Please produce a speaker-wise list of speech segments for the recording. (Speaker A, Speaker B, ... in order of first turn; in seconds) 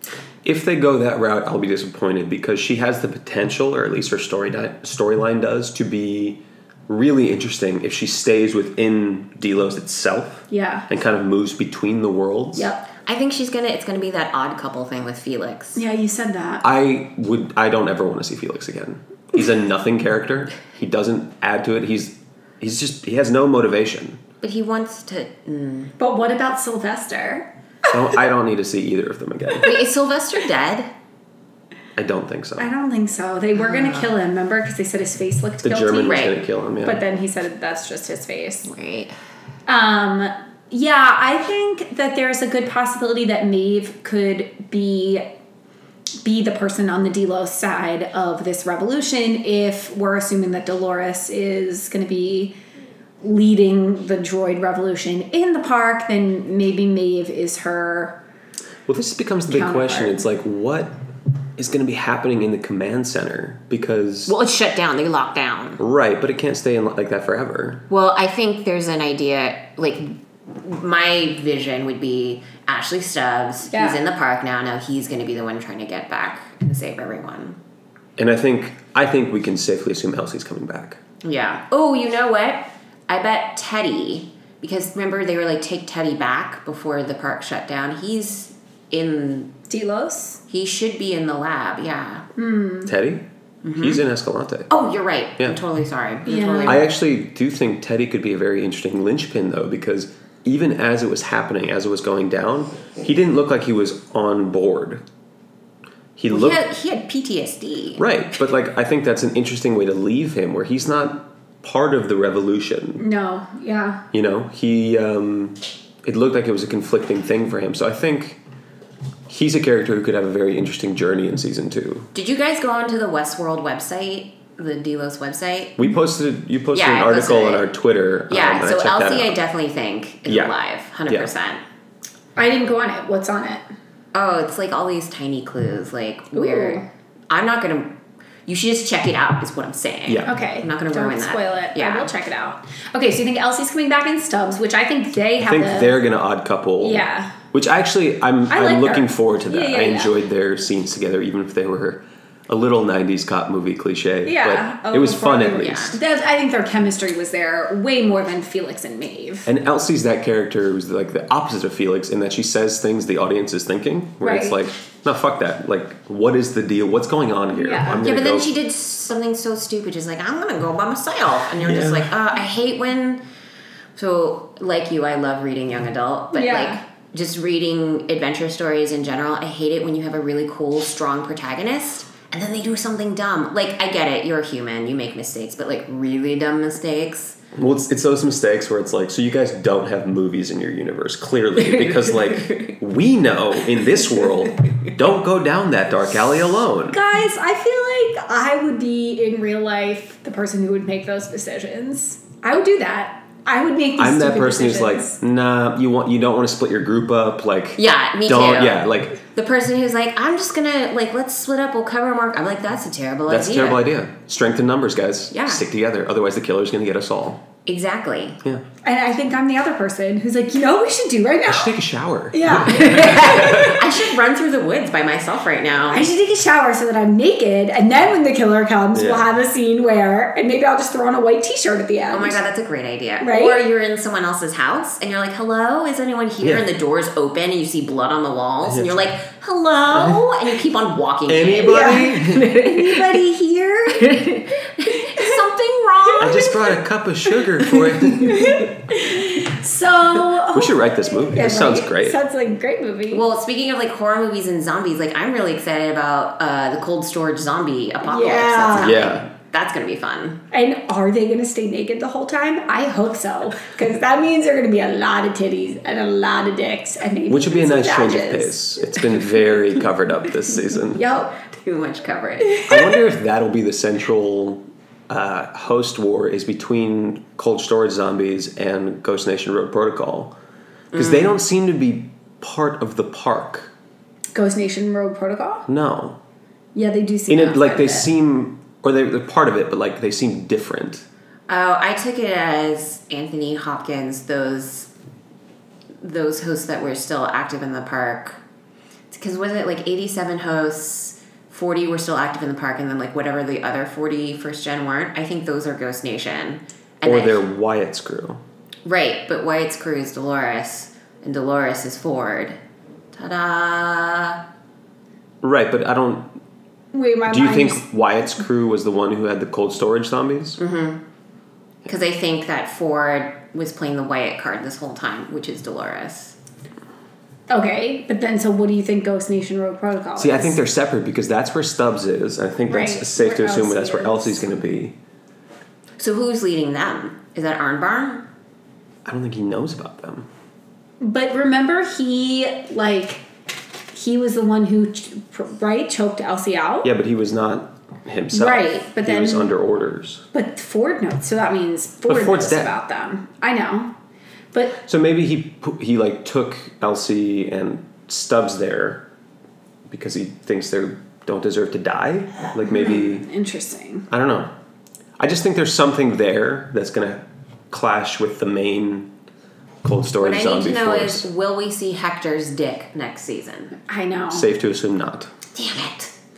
Speaker A: 0.4-12.7, 16.6-24.2, 27.9-29.7, 31.9-32.7, 35.6-37.0, 58.9-60.9, 61.6-64.3, 65.8-67.8, 78.2-81.0, 92.8-93.2, 93.8-94.7, 96.7-105.0, 106.2-106.6, 108.0-113.0, 114.1-118.4, 119.3-122.1, 125.8-129.3, 130.3-130.5, 140.1-140.3, 145.4-156.0, 159.4-168.5, 171.6-172.1, 187.5-197.0, 204.0-209.2, 213.3-217.4, 221.5-223.8, 228.9-229.2, 238.7-239.1, 239.9-240.2, 241.3-242.5, 246.2-248.6, 250.5-252.2, 258.8-259.2, 267.3-271.0, 272.6-280.3, 280.9-283.7, 285.7-286.2, 287.3-291.1, 307.0-308.4, 315.4-316.3, 317.3-320.6, 330.2-334.9, 339.0-340.3, 346.8-350.2, 352.1-352.7, 354.8-359.0, 359.9-363.2, 364.1-364.5, 365.2-369.1, 369.8-371.2, 374.3-375.3
Speaker B: 10.5-10.9, 12.6-12.9, 15.8-16.6, 26.0-27.5, 32.6-36.3, 36.8-38.7, 39.6-45.2, 46.2-52.5, 53.2-58.2, 59.5-60.2, 73.7-74.0, 89.7-90.4, 92.3-92.9, 96.2-96.9, 113.0-114.0, 132.3-133.7, 136.3-136.8, 140.2-145.9, 146.8-147.3, 148.5-150.1, 154.2-159.5, 164.2-164.6, 167.5-168.0, 176.3-176.8, 196.9-205.2, 218.8-221.8, 222.3-223.9, 225.9-232.4, 233.2-233.6, 241.6-244.3, 244.8-245.4, 246.0-246.6, 247.7-253.2, 258.1-259.0, 260.5-269.3, 270.9-271.3, 284.3-285.6, 286.7-288.1, 316.9-317.8, 327.5-330.6, 332.7-334.4, 341.0-343.2, 343.9-346.9, 348.3-349.5, 350.3-353.9, 354.5-354.8, 362.7-364.1, 373.9-374.5
Speaker C: 13.1-15.8, 24.4-25.9, 29.6-30.9, 33.5-34.1, 36.0-36.4, 38.6-39.1, 64.3-65.8, 67.9-77.6, 81.2-89.5, 90.5-92.2, 93.6-94.0, 94.7-96.9, 106.3-108.0, 122.1-125.8, 126.7-127.7, 128.3-131.6, 134.1-142.1, 155.5-156.0, 168.0-173.2, 173.9-187.4, 191.6-192.8, 207.8-213.8, 215.3-215.6, 217.7-218.4, 222.7-226.1, 232.1-243.2, 243.9-246.6, 253.1-260.4, 271.1-272.7, 280.9-281.4, 291.5-294.9, 296.0-298.4, 299.1-307.4, 308.8-312.6, 313.1-314.4, 320.6-321.0, 321.8-326.4, 336.0-338.2, 370.2-373.7, 375.5-376.1